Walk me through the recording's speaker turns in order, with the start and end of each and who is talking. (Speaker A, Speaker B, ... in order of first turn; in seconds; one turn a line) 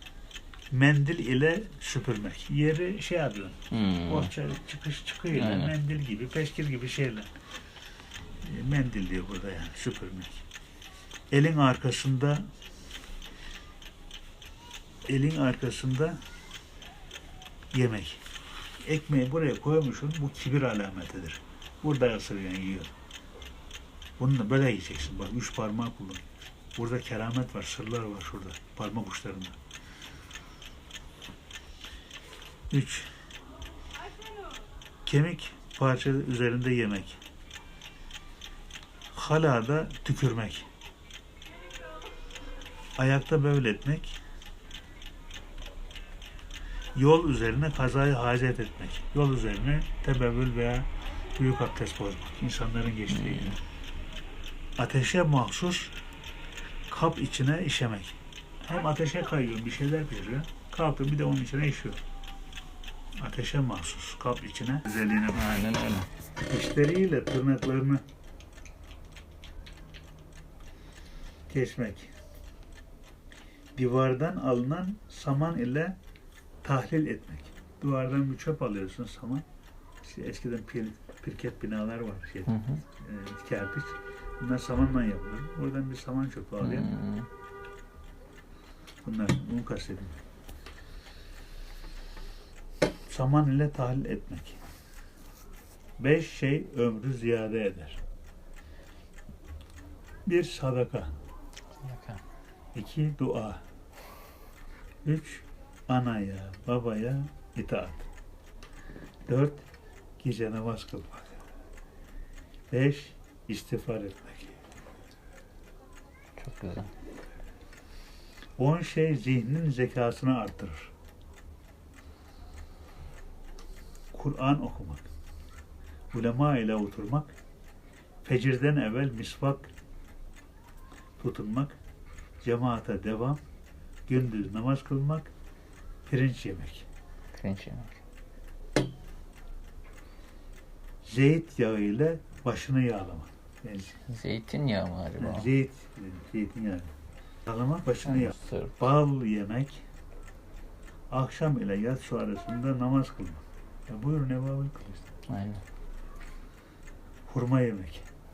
Speaker A: 0.7-7.3
Speaker B: 3.7-4.3
Speaker B: 5.3-5.7
Speaker A: 8.4-10.4
Speaker A: 11.3-12.5
Speaker A: 15.1-16.2
Speaker A: 17.7-18.2
Speaker A: 18.8-22.9
Speaker A: 24.2-29.6
Speaker A: 32.7-33.1
Speaker A: 35.1-37.2
Speaker A: 39.1-40.7
Speaker A: 43.0-44.2
Speaker A: 47.0-53.6
Speaker B: 53.1-53.6
Speaker A: 54.8-55.9
Speaker A: 56.9-62.0
Speaker A: 63.2-65.5
Speaker B: 65.3-66.1
Speaker A: 66.5-68.0
Speaker A: 71.5-72.1
Speaker A: 73.8-76.0
Speaker A: 76.6-79.5
Speaker A: 80.0-86.9
Speaker B: 82.5-82.8
Speaker B: 86.6-87.3
Speaker A: 89.0-90.2
Speaker A: 93.1-94.6
Speaker A: 96.0-98.0
Speaker A: 100.3-101.2
Speaker B: 101.8-102.2
Speaker A: 102.7-103.6
Speaker A: 105.0-108.1
Speaker A: 109.3-109.7
Speaker A: 110.2-111.4
Speaker A: 112.7-114.6
Speaker B: 116.4-116.9
Speaker A: 118.6-120.9
Speaker A: 124.1-125.1
Speaker A: 126.1-127.3
Speaker A: 128.2-129.7
Speaker A: 131.2-131.8
Speaker A: 132.4-133.4
Speaker A: 134.1-135.3
Speaker A: 136.1-136.9
Speaker B: 137.3-137.9
Speaker A: 141.0-144.0
Speaker B: 144.1-145.5
Speaker A: 145.2-146.9
Speaker A: 147.5-149.8
Speaker B: 148.1-148.7
Speaker A: 151.1-155.1
Speaker B: 155.3-155.6
Speaker A: 157.3-158.0